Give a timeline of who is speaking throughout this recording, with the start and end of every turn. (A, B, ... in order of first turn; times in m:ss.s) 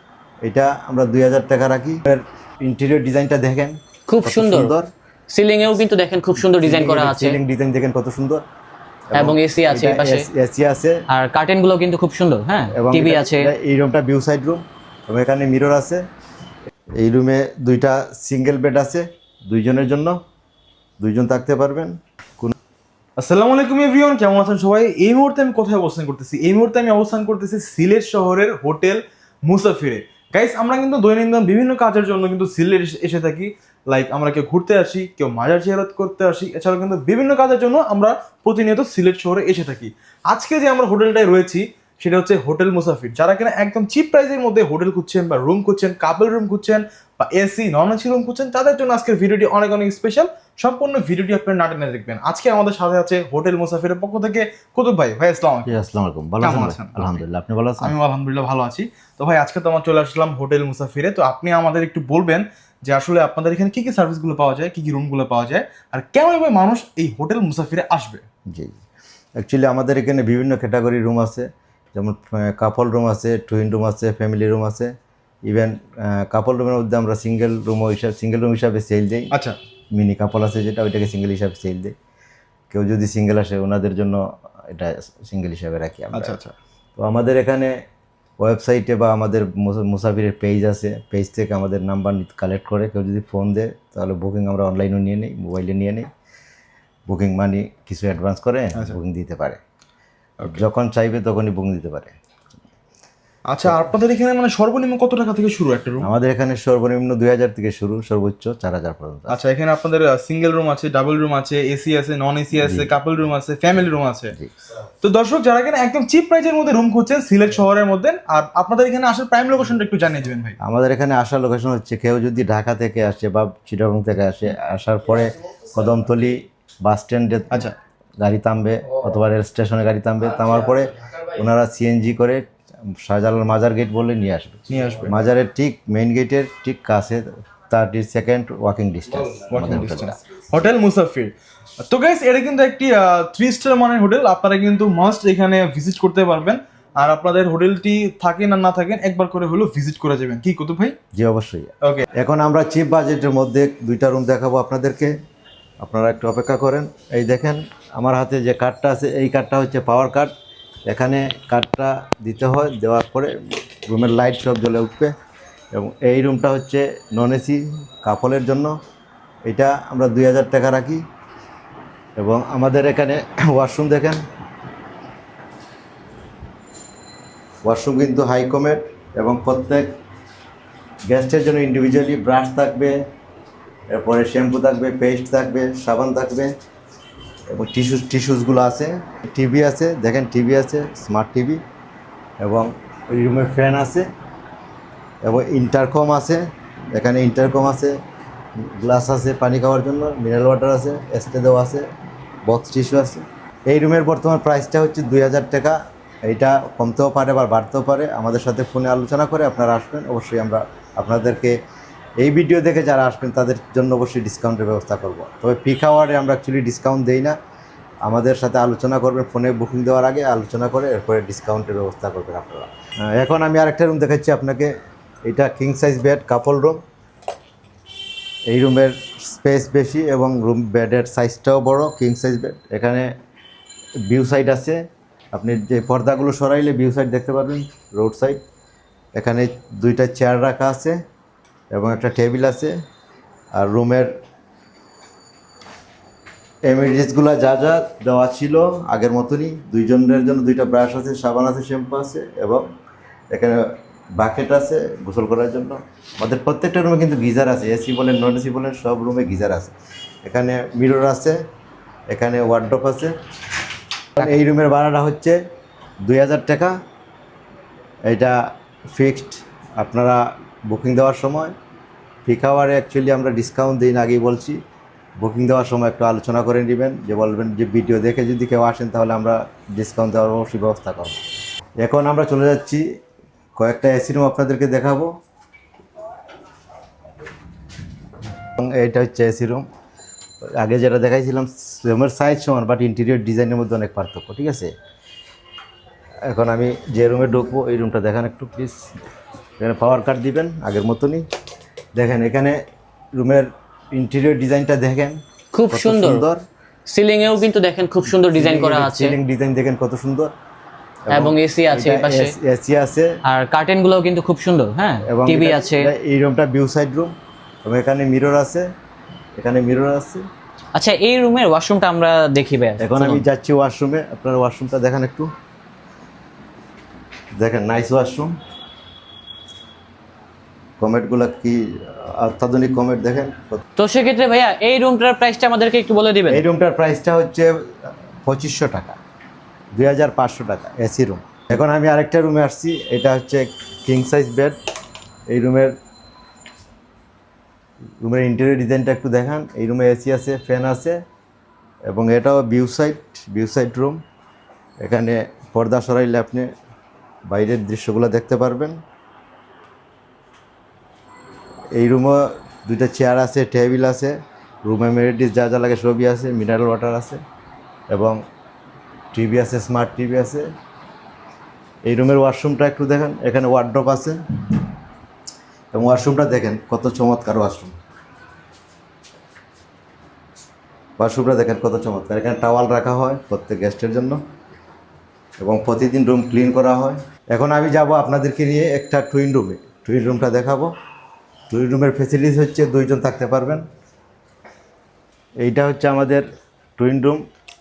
0:00.5-0:04.9 A
0:04.1-0:04.7 B
0:05.3-0:07.4 B
0:06.5-0:08.4 A
0:09.1-0:11.0 A
0:09.2-0:10.3 B
0:11.1-0:13.5 B
0:12.7-0:16.0 A
0:17.0-0:20.2 A
0:21.0-0:22.6 A
0:23.2-0:55.8 C
0:55.7-0:58.0 A
0:56.4-0:57.2 C
0:57.8-1:08.2 C
1:08.5-1:08.8 A
1:09.4-1:14.9 A
1:15.5-1:19.3 A
1:19.3-1:19.6 C
1:20.0-1:21.9 A
1:22.7-1:26.4 A
1:26.1-1:26.6 C
1:27.0-1:27.7 A
1:28.4-1:36.1 A
1:37.1-1:39.6 A
1:40.4-1:42.2 A
1:43.4-1:46.1 C
1:46.0-1:49.4 A
1:49.3-1:54.4 C
1:52.6-1:52.9 A
1:55.0-2:00.6 C
2:00.6-2:07.7 A
2:08.2-2:20.2 A
2:14.7-2:15.1 C
2:19.4-2:31.0 C
2:31.1-2:35.1 A
2:31.8-2:32.1 C
2:35.8-2:40.3 A
2:40.9-2:43.3 A
2:43.9-2:45.1 A
2:45.7-2:48.8 A
2:49.5-2:51.0 A
2:52.2-2:54.2 A
2:57.6-2:59.9 A
3:01.1-3:03.0 A
3:03.9-3:06.5 A
3:07.5-3:11.6 A
3:12.4-3:14.1 A
3:15.2-3:18.0 A
3:18.6-3:21.9 A
3:22.5-3:31.6 A
3:32.2-3:37.4 A
3:38.0-3:44.7 A
3:45.3-3:46.8 A
3:48.5-3:53.1 A
3:54.1-3:54.8 A
3:55.3-3:58.4 A
3:59.2-4:01.0 A
4:01.7-4:02.8 A
4:03.5-4:04.1 A
4:06.7-4:12.6 A
4:13.3-4:21.4 A
4:22.1-4:23.2 A
4:24.2-4:25.4 A
4:26.0-4:26.8 A
4:28.1-4:28.3 A
4:28.9-4:31.5 A
4:32.2-4:34.6 A
4:35.2-4:41.2 A
4:41.8-4:42.8 A
4:43.6-4:45.1 A
4:48.6-4:49.6 A
4:50.6-4:54.7 A
4:56.3-4:58.8 A
4:59.6-5:01.2 A
5:02.0-5:02.6 A
5:03.2-5:06.4 A
5:05.5-5:06.2 B
5:06.9-5:09.2 B
5:08.3-5:10.3 A
5:11.1-5:13.2 A
5:11.1-5:12.3 B
5:13.2-5:15.9 B
5:15.1-5:17.1 A
5:17.6-5:18.7 A
5:19.4-5:20.2 A
5:20.8-5:23.2 B
5:22.8-5:25.3 A
5:27.4-5:28.3 A
5:30.8-5:33.6 A
5:33.8-5:36.4 B
5:36.3-5:37.6 A
5:38.2-5:39.0 A
5:39.8-5:44.6 A
5:45.3-5:45.7 A
5:48.0-5:51.0 A
5:51.9-5:54.0 A
5:54.8-5:56.5 A
5:57.3-5:58.8 A
6:01.8-6:07.2 A
6:07.9-6:08.2 A
6:09.1-6:10.5 A
6:11.9-6:14.2 A
6:15.7-6:17.7 A
6:21.0-6:24.2 A
6:25.4-6:30.7 A
6:31.5-6:33.6 A
6:35.4-6:36.2 A
6:36.8-6:37.2 A